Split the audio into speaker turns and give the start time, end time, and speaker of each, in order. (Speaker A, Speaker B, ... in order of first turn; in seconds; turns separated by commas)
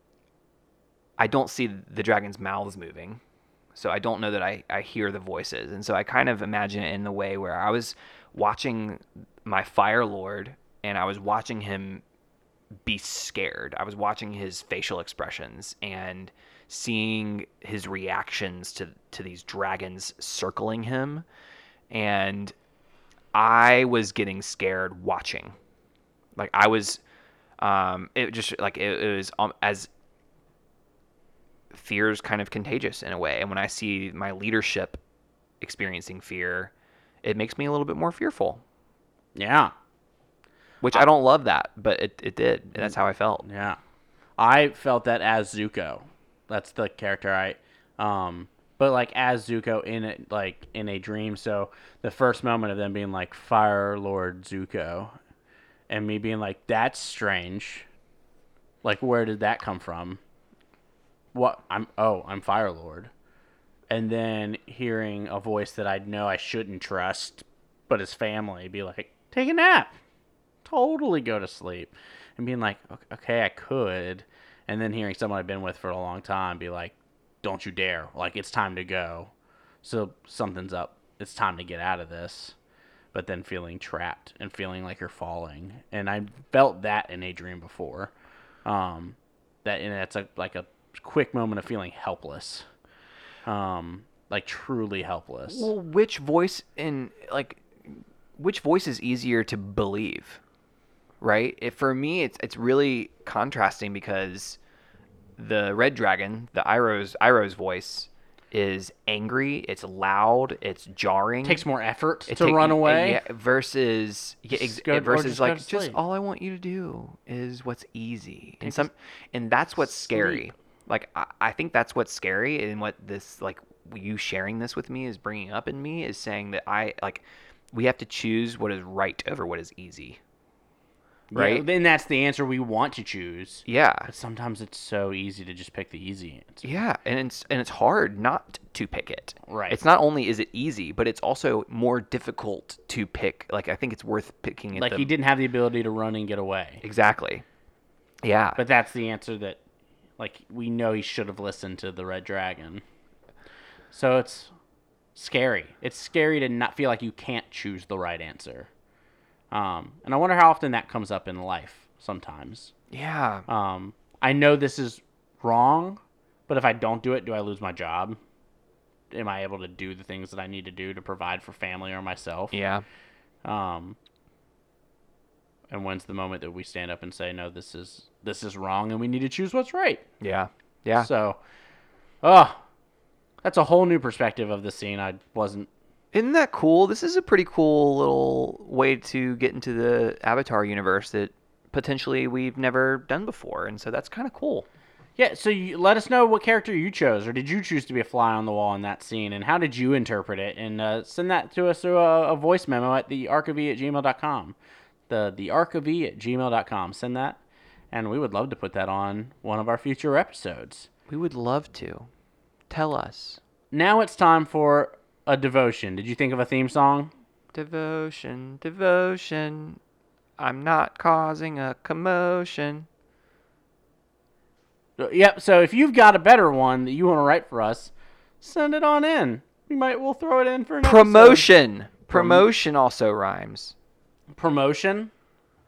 Speaker A: 1.2-3.2, Speaker A: 3.7-12.0, Speaker A: 12.9-21.3, Speaker A: 21.9-22.5, Speaker A: 23.3-25.6, Speaker A: 26.4-27.0, Speaker A: 27.6-29.9, Speaker A: 31.7-35.0, Speaker A: 35.6-36.7, Speaker A: 37.2-38.6, Speaker B: 39.4-39.7, Speaker A: 40.8-43.5, Speaker B: 42.8-43.8, Speaker B: 44.4-55.1, Speaker B: 55.9-57.9, Speaker B: 58.8-60.2, Speaker B: 61.3-63.1, Speaker B: 63.9-70.0, Speaker B: 70.6-79.3, Speaker B: 79.8-82.5, Speaker B: 83.1-88.1, Speaker B: 88.6-92.6, Speaker B: 93.5-95.7, Speaker A: 95.5-100.4, Speaker A: 101.2-104.6, Speaker A: 105.4-111.6, Speaker B: 111.5-113.2, Speaker A: 112.3-130.2, Speaker B: 114.5-116.0, Speaker B: 118.6-118.9, Speaker B: 119.9-120.5, Speaker B: 131.3-136.6, Speaker A: 131.3-131.7, Speaker A: 133.7-134.1, Speaker A: 136.6-145.1, Speaker B: 139.5-139.8, Speaker B: 144.7-146.8, Speaker A: 146.8-147.4, Speaker A: 148.2-148.6, Speaker B: 148.6-149.6, Speaker B: 150.2-152.8, Speaker B: 153.9-154.5, Speaker B: 155.1-158.7, Speaker B: 159.5-162.7, Speaker A: 162.9-163.4, Speaker B: 163.5-168.2, Speaker B: 169.1-172.6, Speaker A: 172.5-172.8, Speaker B: 173.4-174.0, Speaker B: 175.7-180.0, Speaker A: 180.2-181.1, Speaker B: 181.0-181.4, Speaker B: 182.2-182.6, Speaker B: 183.4-185.7, Speaker A: 186.1-194.7, Speaker B: 195.2-204.6, Speaker B: 205.1-207.4, Speaker B: 207.9-210.9, Speaker A: 211.1-212.1, Speaker A: 212.7-213.4, Speaker B: 213.7-217.1, Speaker A: 217.5-219.8, Speaker A: 220.4-222.9, Speaker B: 225.0-231.5, Speaker A: 230.8-233.7, Speaker B: 232.1-232.5, Speaker B: 234.3-235.1